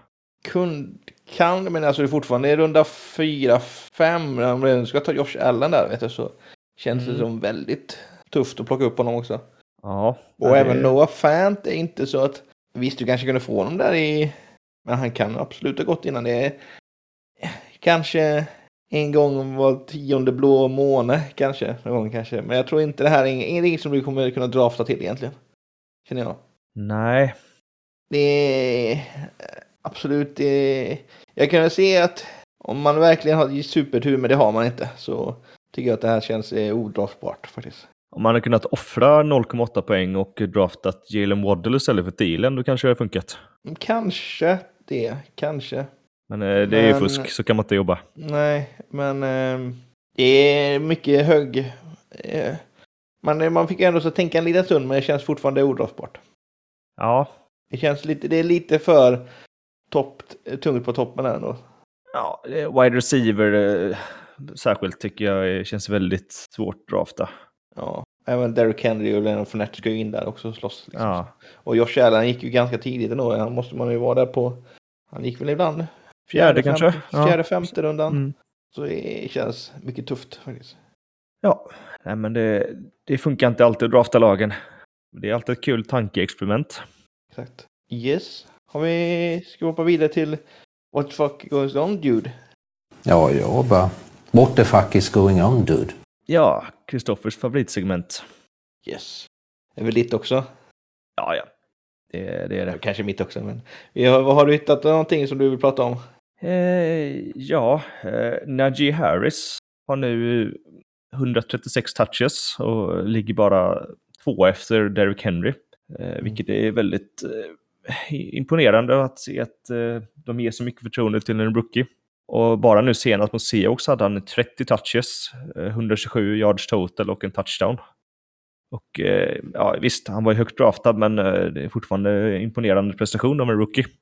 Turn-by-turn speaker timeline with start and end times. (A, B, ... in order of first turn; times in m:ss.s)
0:00.4-0:09.4 A
0:06.9-0:07.3 B
0:09.8-0:11.0 B
0:10.4-0:14.3 A
0:14.8-0:16.6 A
0:17.4-0:25.4 A
0:26.0-0:26.4 A
0:26.8-0:27.3 B
0:28.1-0:37.8 A
0:38.1-0:43.4 B
0:43.7-0:45.9 A
0:46.3-0:48.0 B
0:46.7-0:47.3 A
0:48.2-0:52.6 A
0:53.2-0:56.2 A
0:57.0-0:57.3 B
0:57.7-0:59.2 A
0:59.9-1:01.6 A
1:02.1-1:07.3 B
1:07.8-1:14.6 A
1:10.9-1:11.3 B
1:15.1-1:18.2 A
1:16.3-1:17.4 B
1:18.1-1:18.3 B
1:18.7-1:20.8 A
1:21.4-1:24.5 B
1:25.1-1:26.8 B
1:27.3-1:30.4 A
1:30.9-1:32.3 A
1:33.1-1:35.9 C
1:36.3-1:38.2 B
1:38.8-1:40.4 A
1:41.2-1:41.5 B
1:42.1-1:42.8 B
1:42.7-1:46.0 A
1:46.4-1:50.6 B
1:51.1-2:07.8 B
2:08.7-2:13.9 B